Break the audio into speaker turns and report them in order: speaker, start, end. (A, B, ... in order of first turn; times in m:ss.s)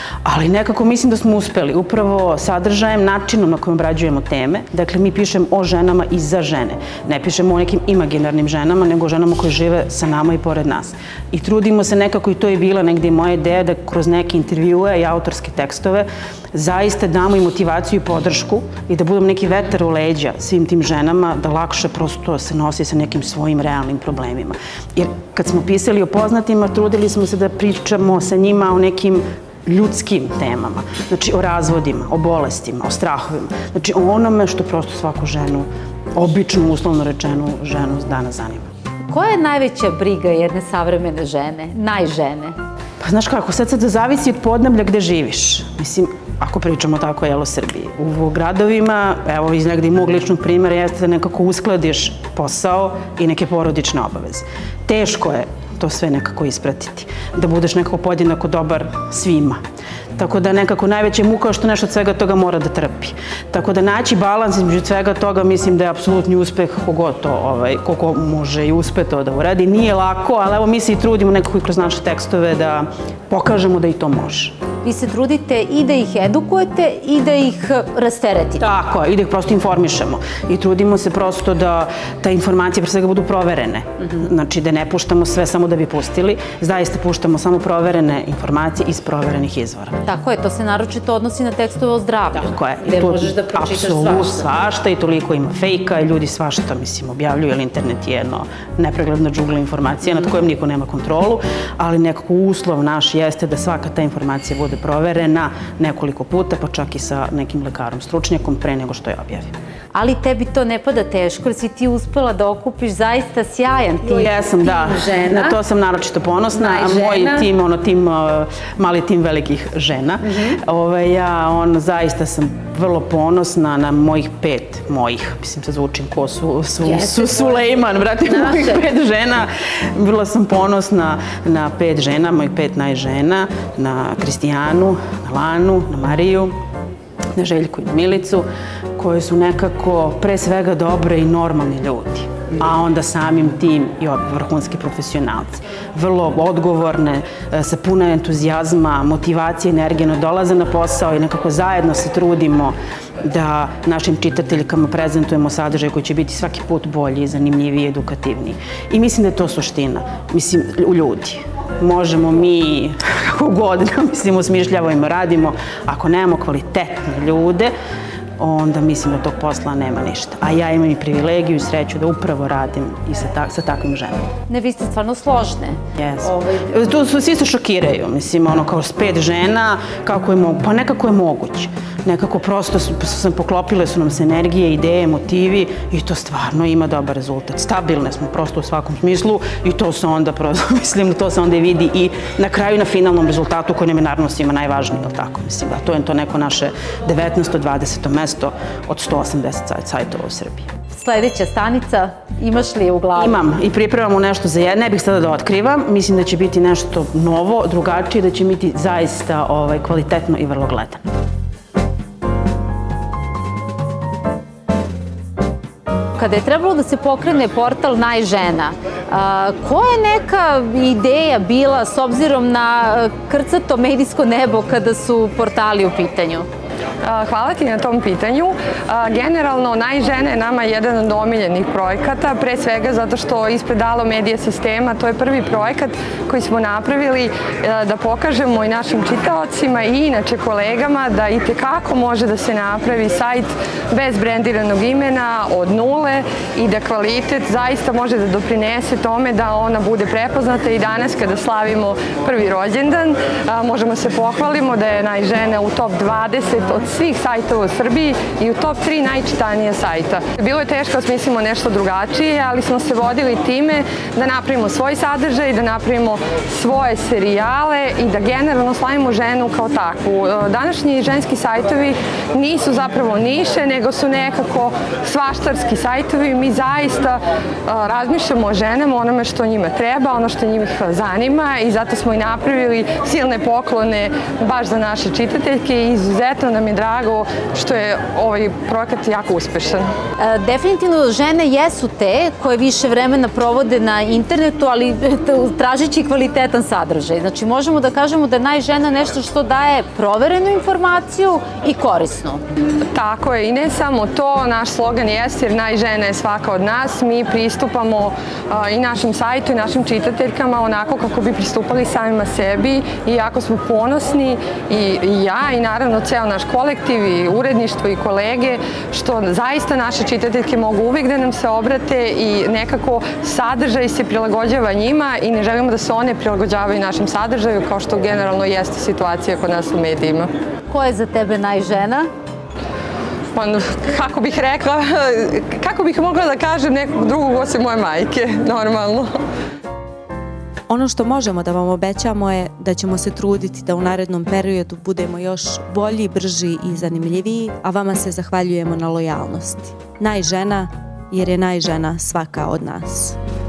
0:00.2-0:38.7 A
0:39.1-0:42.6 B
0:43.0-0:59.6 A
1:00.2-1:14.6 A
1:14.8-1:18.6 B
1:18.6-1:30.0 A
1:30.0-1:34.5 B
1:32.4-1:49.5 A
1:49.9-1:55.5 B
1:54.0-2:16.6 A
1:56.5-1:57.5 B
2:06.8-2:07.6 B
2:08.2-2:08.8 B
2:17.3-2:47.7 A
2:48.4-2:54.3 A
2:54.5-2:55.8 B
2:56.0-3:20.7 A
3:20.9-3:23.4 B
3:23.2-3:31.0 A
3:36.2-3:46.4 B
3:47.0-4:49.9 C
4:50.2-5:02.4 B
5:02.9-5:30.3 C
5:30.7-5:32.1 B
5:33.3-5:39.1 C
5:40.7-5:53.2 D